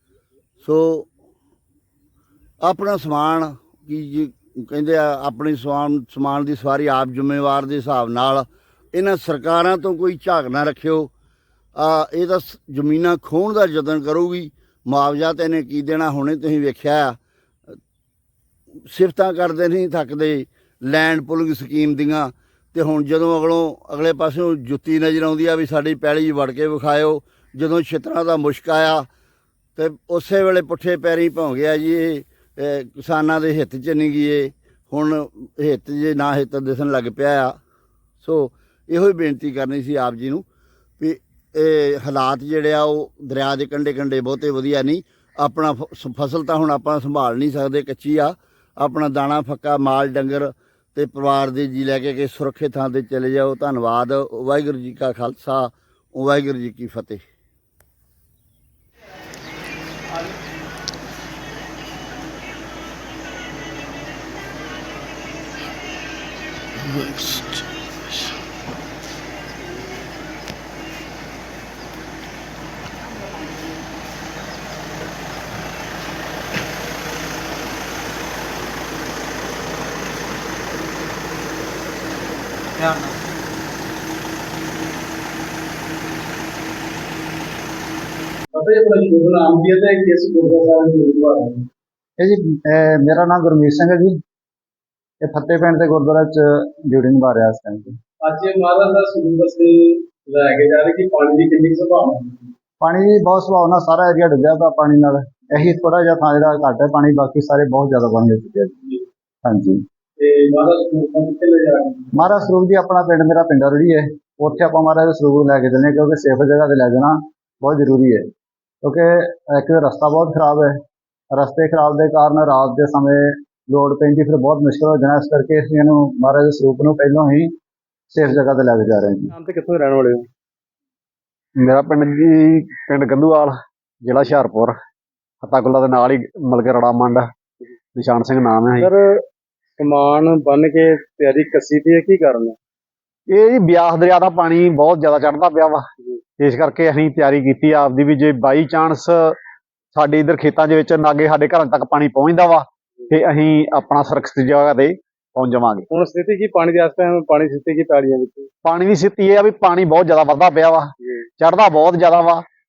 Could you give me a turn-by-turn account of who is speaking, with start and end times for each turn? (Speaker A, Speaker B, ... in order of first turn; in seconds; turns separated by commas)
Speaker A: 0.6-1.1, Speaker A: 2.6-11.1, Speaker A: 11.8-17.2, Speaker A: 18.9-29.1, Speaker A: 29.8-37.6, Speaker A: 38.2-40.5, Speaker A: 41.0-57.2, Speaker B: 88.5-91.7, Speaker C: 92.2-94.2, Speaker C: 95.2-98.0, Speaker B: 98.2-102.5, Speaker C: 102.8-109.8, Speaker B: 110.2-112.3, Speaker C: 112.2-118.3, Speaker C: 118.8-120.8, Speaker C: 121.3-127.5, Speaker C: 128.1-129.3, Speaker B: 129.3-130.3, Speaker D: 131.6-134.7, Speaker D: 135.4-137.3, Speaker D: 137.9-138.9, Speaker B: 138.8-139.2, Speaker B: 139.8-142.6, Speaker D: 143.3-145.8, Speaker D: 146.4-149.4, Speaker D: 149.9-155.9, Speaker B: 155.9-158.5, Speaker D: 158.7-162.4